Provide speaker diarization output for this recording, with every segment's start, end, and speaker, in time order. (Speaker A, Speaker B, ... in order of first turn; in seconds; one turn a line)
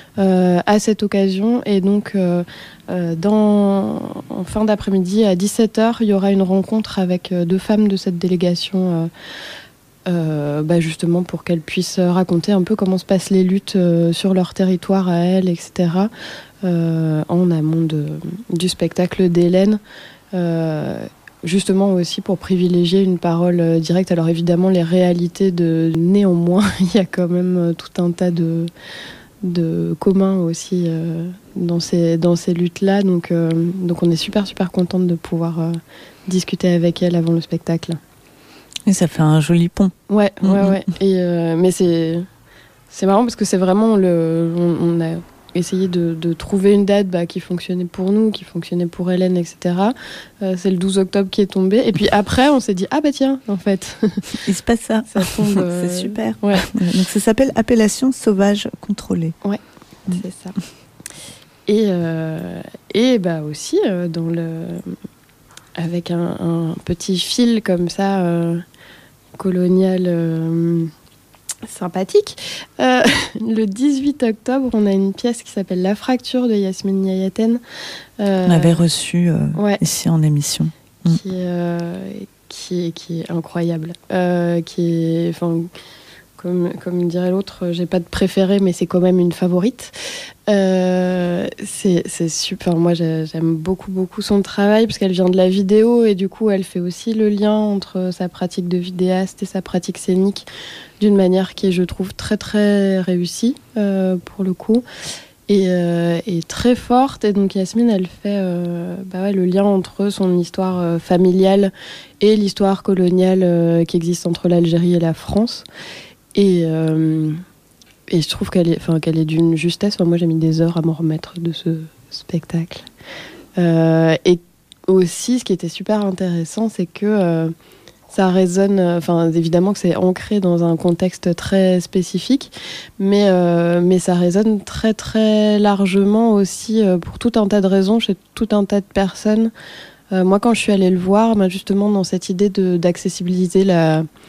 Speaker A: 0.2-9.1
Speaker A: 10.1-16.1
Speaker A: 16.6-19.8
Speaker A: 20.3-28.7
Speaker A: 29.4-38.0
Speaker B: 38.9-40.8
Speaker A: 40.1-42.3
Speaker A: 42.9-54.3
Speaker B: 54.3-59.3
Speaker A: 55.1-56.7
Speaker A: 59.4-60.6
Speaker A: 61.7-65.0
Speaker A: 65.8-68.6
Speaker A: 69.4-70.9
Speaker A: 71.7-77.6
Speaker A: 78.2-78.8
Speaker B: 78.5-81.2
Speaker A: 79.5-79.8
Speaker A: 81.0-85.7
Speaker A: 86.4-90.0
Speaker A: 90.5-100.4
Speaker A: 101.0-104.8
Speaker A: 105.5-115.6
Speaker A: 116.3-117.4
Speaker A: 118.1-122.8
Speaker A: 123.6-127.5
Speaker A: 128.1-139.5
Speaker A: 140.1-144.1